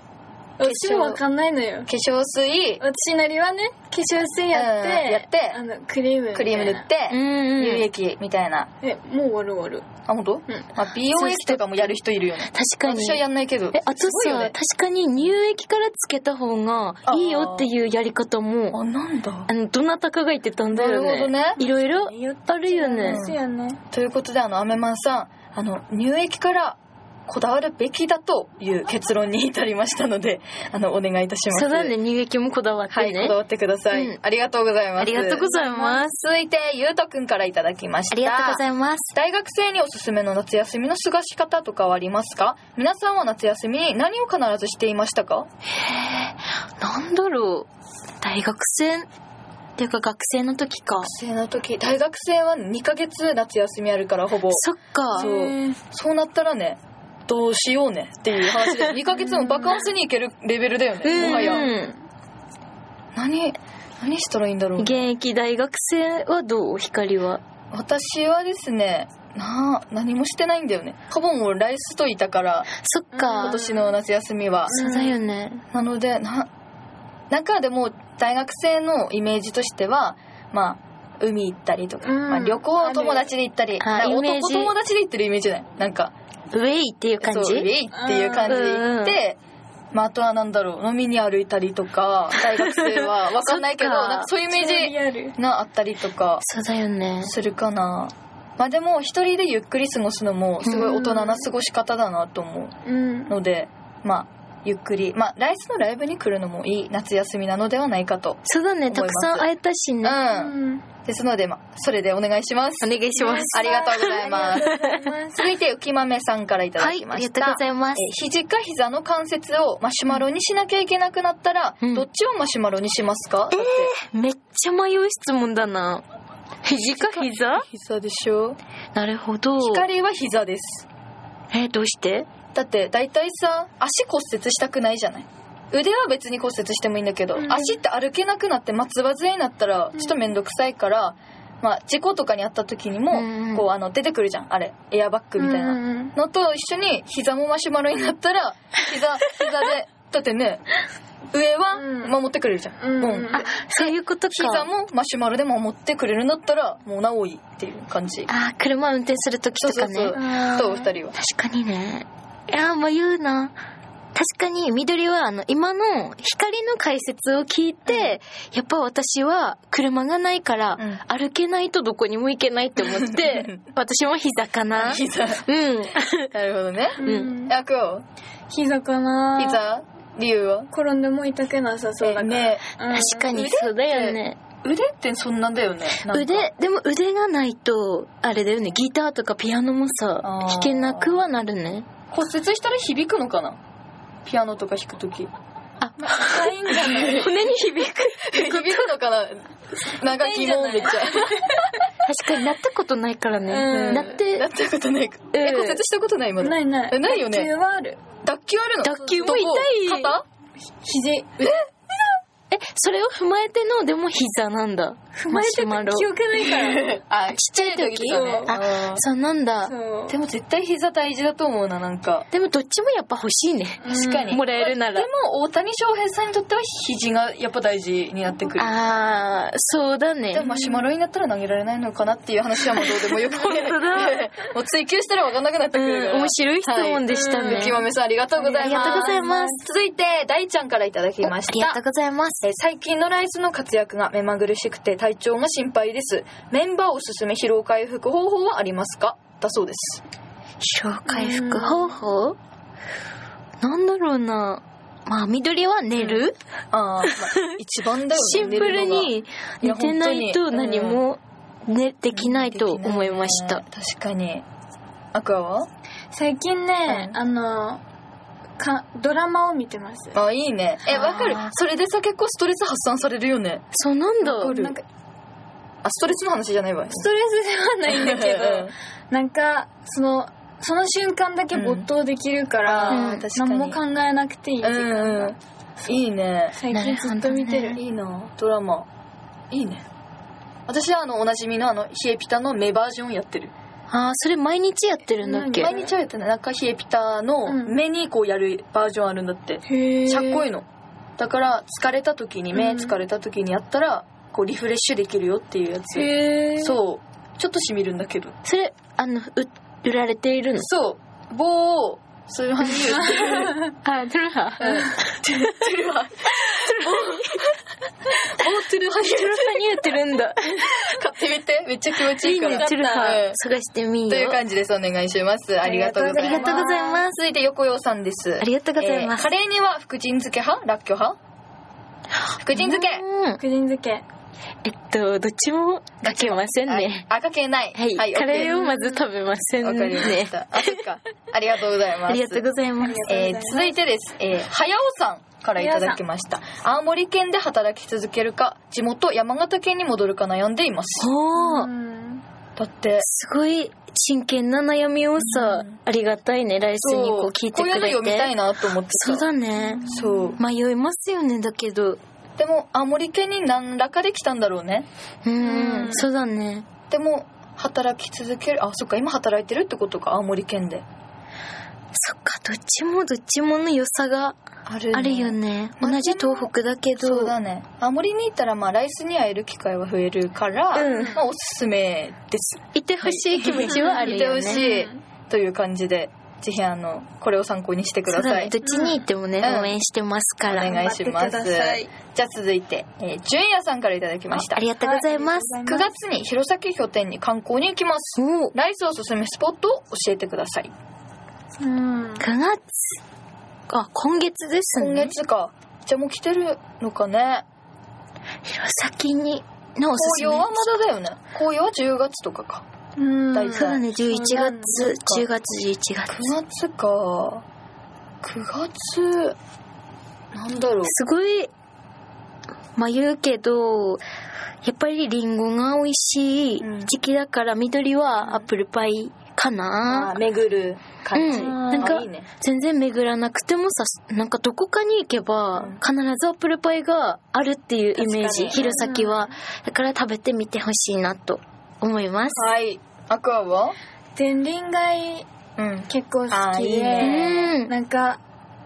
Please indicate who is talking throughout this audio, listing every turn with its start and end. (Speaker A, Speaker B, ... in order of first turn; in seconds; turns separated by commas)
Speaker A: 0.6-1.9, Speaker B: 0.6-1.2, Speaker B: 1.9-2.8, Speaker A: 2.8-6.9, Speaker B: 4.5-5.6, Speaker B: 6.3-8.7, Speaker C: 7.1-7.9, Speaker A: 8.8-9.9, Speaker B: 10.1-14.5, Speaker C: 11.1-11.9, Speaker C: 12.5-13.2, Speaker C: 13.7-18.8, Speaker B: 17.1-17.7, Speaker B: 18.7-19.5, Speaker C: 19.5-23.2, Speaker B: 20.7-21.6, Speaker A: 21.6-23.8, Speaker B: 23.0-23.4, Speaker B: 23.9-31.9, Speaker C: 31.5-33.4, Speaker B: 32.9-35.5, Speaker C: 33.9-34.2, Speaker C: 35.0-36.2, Speaker A: 35.4-36.0, Speaker B: 36.1-45.5, Speaker C: 38.1-39.1, Speaker C: 45.7-47.7, Speaker C: 48.2-49.1, Speaker C: 49.8-51.1, Speaker B: 51.0-61.7, Speaker C: 54.5-55.3, Speaker A: 55.1-55.8, Speaker A: 59.1-59.9, Speaker C: 61.0-62.0, Speaker A: 61.1-62.0, Speaker B: 63.1-65.1, Speaker C: 64.8-67.4, Speaker B: 67.7-72.7, Speaker C: 72.7-73.6, Speaker A: 73.2-73.9, Speaker B: 73.3-74.8, Speaker C: 74.7-75.6, Speaker A: 74.7-75.2, Speaker B: 75.7-76.5, Speaker B: 77.3-86.1, Speaker A: 82.0-83.3, Speaker C: 83.8-84.7, Speaker C: 86.5-87.7, Speaker B: 87.2-89.4, Speaker A: 87.9-88.6, Speaker C: 88.5-89.2, Speaker B: 89.9-96.4, Speaker C: 92.4-94.3, Speaker A: 94.5-95.4, Speaker C: 96.4-97.3, Speaker B: 97.2-102.7, Speaker C: 100.6-101.1, Speaker A: 101.1-101.4, Speaker A: 102.8-103.3, Speaker B: 103.3-109.5, Speaker C: 108.5-110.2, Speaker B: 110.0-114.8, Speaker A: 110.3-110.8, Speaker C: 112.8-115.1, Speaker A: 113.2-115.5, Speaker B: 115.3-123.9, Speaker C: 116.8-118.1, Speaker C: 123.5-126.0, Speaker C: 126.6-127.7, Speaker B: 127.0-128.6, Speaker C: 128.9-129.8, Speaker B: 129.6-130.9, Speaker C: 131.5-132.3, Speaker B: 132.5-150.6, Speaker A: 137.4-137.8, Speaker C: 143.1-143.7, Speaker A: 145.4-146.2, Speaker B: 151.3-158.3, Speaker A: 151.8-152.2, Speaker A: 152.8-153.5, Speaker C: 153.3-154.7, Speaker C: 158.3-160.2, Speaker B: 159.6-161.2, Speaker A: 160.1-160.9, Speaker C: 161.2-163.6, Speaker C: 164.2-176.3, Speaker B: 167.9-168.2, Speaker B: 172.9-173.7, Speaker B: 174.8-175.5, Speaker B: 176.3-178.0, Speaker A: 177.0-177.5, Speaker C: 177.0-177.4, Speaker A: 178.5-179.6, Speaker B: 179.4-180.7, Speaker A: 180.7-183.3, Speaker B: 182.0-182.7, Speaker C: 182.9-184.4, Speaker B: 183.3-186.5, Speaker C: 186.0-191.9, Speaker B: 190.2-191.2, Speaker B: 192.1-193.6, Speaker B: 194.3-195.3, Speaker C: 195.8-198.9, Speaker A: 196.0-197.3, Speaker B: 196.7-197.3, Speaker B: 198.3-201.7, Speaker A: 200.0-201.6, Speaker C: 202.0-204.5, Speaker A: 203.5-204.2, Speaker B: 203.7-207.5, Speaker C: 205.3-205.8, Speaker A: 206.4-208.0, Speaker B: 208.2-210.2, Speaker C: 208.8-210.1, Speaker A: 210.8-211.3, Speaker B: 211.4-211.7, Speaker C: 212.5-216.1, Speaker A: 215.2-217.0, Speaker B: 216.4-219.1, Speaker C: 217.3-219.7, Speaker A: 218.1-218.5, Speaker A: 219.7-220.2, Speaker B: 220.1-222.3, Speaker C: 222.3-225.1, Speaker A: 223.8-224.4, Speaker B: 223.9-228.7, Speaker C: 228.6-230.4, Speaker B: 230.3-241.8, Speaker A: 230.4-230.9, Speaker C: 232.8-234.2, Speaker C: 235.7-237.8, Speaker A: 237.1-237.8, Speaker A: 238.4-239.6, Speaker C: 238.6-239.6, Speaker C: 241.2-242.4, Speaker B: 242.4-250.0, Speaker C: 250.6-252.4, Speaker A: 251.1-252.0, Speaker C: 253.6-256.4, Speaker B: 256.0-259.1, Speaker C: 258.1-263.6, Speaker B: 259.6-261.0, Speaker B: 262.1-264.4, Speaker B: 265.1-265.7, Speaker A: 266.1-267.8, Speaker B: 266.9-267.2, Speaker A: 268.6-270.1, Speaker B: 270.1-273.6, Speaker C: 270.9-271.5, Speaker C: 273.7-274.6, Speaker B: 274.2-274.8, Speaker A: 274.3-274.8, Speaker B: 275.8-277.1, Speaker A: 276.9-285.9, Speaker B: 277.9-278.7, Speaker B: 281.5-281.9, Speaker B: 282.6-283.8, Speaker C: 282.9-283.3, Speaker B: 284.6-285.4, Speaker B: 285.9-286.6, Speaker A: 286.6-287.8, Speaker C: 286.7-287.8, Speaker B: 287.8-288.9, Speaker B: 289.5-289.8, Speaker B: 290.7-293.5, Speaker C: 293.9-295.7, Speaker A: 295.2-295.9, Speaker B: 295.6-300.7, Speaker A: 297.5-297.7, Speaker A: 299.7-300.5, Speaker B: 301.2-308.4, Speaker A: 302.6-303.0, Speaker A: 305.9-306.8, Speaker C: 308.4-310.7, Speaker B: 310.6-313.6, Speaker C: 313.8-315.0, Speaker B: 314.6-317.5, Speaker C: 316.4-317.4, Speaker B: 318.1-319.9, Speaker C: 319.0-321.0, Speaker B: 320.6-323.4, Speaker C: 322.2-324.4, Speaker A: 322.5-323.2, Speaker B: 324.1-331.2, Speaker A: 325.6-327.1, Speaker C: 326.2-327.2, Speaker C: 328.4-329.3, Speaker B: 332.4-333.0, Speaker C: 332.5-333.4, Speaker A: 333.4-334.1, Speaker C: 334.6-337.1, Speaker B: 336.0-338.6, Speaker C: 337.8-340.8, Speaker A: 338.4-339.1, Speaker B: 339.6-342.4, Speaker C: 342.1-343.1, Speaker A: 342.8-343.8, Speaker B: 343.1-351.1, Speaker A: 345.6-346.0, Speaker C: 351.0-351.7, Speaker A: 351.4-352.2, Speaker B: 352.6-353.1, Speaker C: 353.0-358.3, Speaker B: 355.2-355.8, Speaker B: 356.8-359.3, Speaker C: 358.9-362.0, Speaker A: 359.7-360.3, Speaker B: 359.9-360.4, Speaker B: 362.4-364.9, Speaker C: 365.2-366.7, Speaker A: 365.4-366.1, Speaker B: 365.4-366.0, Speaker B: 366.9-370.8, Speaker C: 371.9-374.4, Speaker B: 374.7-388.5, Speaker C: 374.9-377.4, Speaker C: 380.7-381.2, Speaker A: 380.8-381.2, Speaker C: 382.7-384.6, Speaker A: 383.6-385.0, Speaker C: 388.1-390.7, Speaker A: 388.6-389.0, Speaker B: 389.4-389.8, Speaker B: 390.5-394.6, Speaker A: 390.6-391.9, Speaker C: 394.3-395.6, Speaker A: 394.8-395.9, Speaker B: 395.6-400.7, Speaker C: 398.2-398.5, Speaker A: 401.6-402.3, Speaker C: 402.2-403.0, Speaker C: 403.7-405.1, Speaker B: 404.8-407.4, Speaker C: 408.5-410.8, Speaker B: 410.0-412.6, Speaker A: 413.0-415.0, Speaker B: 413.3-413.9, Speaker C: 413.5-416.4, Speaker B: 415.0-415.2, Speaker B: 416.1-417.4, Speaker B: 418.2-419.4, Speaker B: 420.3-420.9, Speaker C: 420.8-421.5, Speaker C: 422.8-424.0, Speaker C: 424.6-430.2, Speaker B: 426.6-426.9, Speaker B: 428.2-428.5, Speaker B: 429.9-432.3, Speaker C: 431.1-442.5, Speaker A: 431.3-432.0, Speaker B: 435.6-435.8, Speaker B: 437.9-438.9, Speaker A: 438.6-439.3, Speaker B: 442.3-443.8, Speaker A: 444.2-445.3, Speaker B: 445.6-447.5, Speaker A: 445.9-448.2, Speaker C: 447.0-447.7